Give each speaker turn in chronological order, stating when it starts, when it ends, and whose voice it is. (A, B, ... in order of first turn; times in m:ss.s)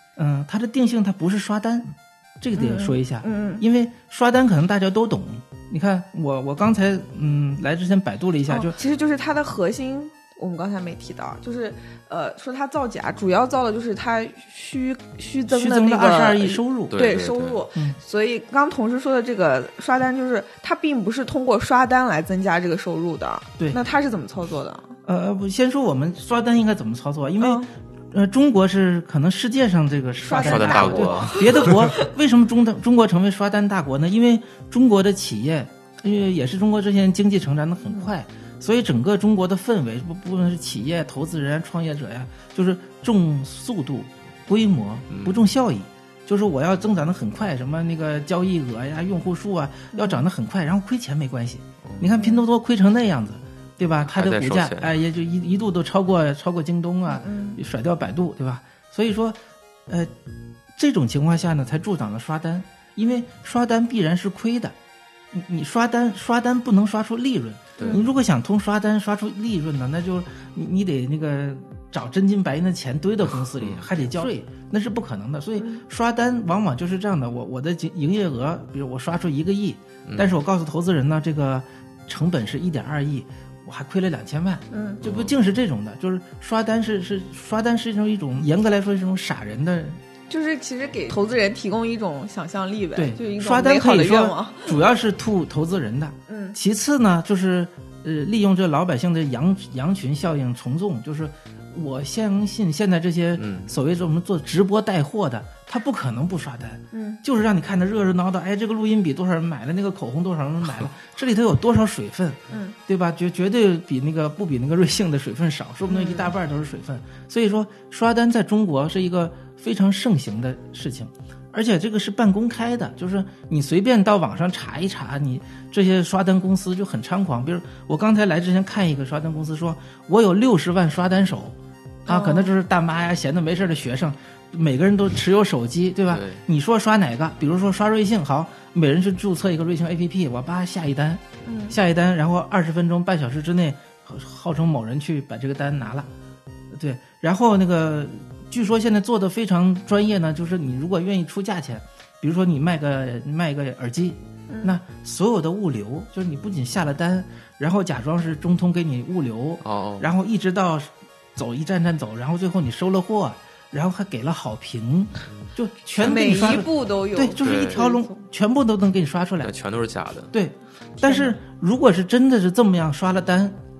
0:00.2-0:08.8 A
0:02.5-0:03.6 B
0:08.5-0:25.0 B
0:15.5-0:17.0 A
0:16.9-0:17.6 C
0:25.0-1:00.1 A
0:27.4-0:27.7 B
0:30.2-0:32.0 B
0:30.3-0:31.9 C
0:45.1-0:45.5 C
0:49.9-0:50.2 B
0:51.8-0:52.2 C
0:52.2-0:52.4 B
0:54.0-0:55.0 C
0:57.1-0:57.6 B
1:00.8-1:04.7 A
1:05.3-1:30.0 A
1:07.8-1:08.0 C
1:07.8-1:08.1 B
1:13.3-1:13.9 C
1:20.0-1:20.4 C
1:24.7-1:25.0 B
1:25.0-1:25.3 C
1:30.3-1:34.8 B
1:32.9-2:26.1 A
1:36.3-1:36.6 B
1:43.4-1:43.7 C
1:46.9-1:47.2 B
1:52.5-1:52.8 B
1:55.9-1:56.3 B
2:12.1-2:12.5 B
2:16.1-2:16.4 C
2:21.4-2:21.8 B
2:26.7-2:49.5 A
2:34.5-2:34.7 B
2:39.6-2:40.1 C
2:45.3-2:46.7 C
2:46.0-2:48.2 B
2:47.4-2:47.9 C
2:49.4-2:50.3 C
2:50.3-2:53.6 A
2:51.0-2:51.4 B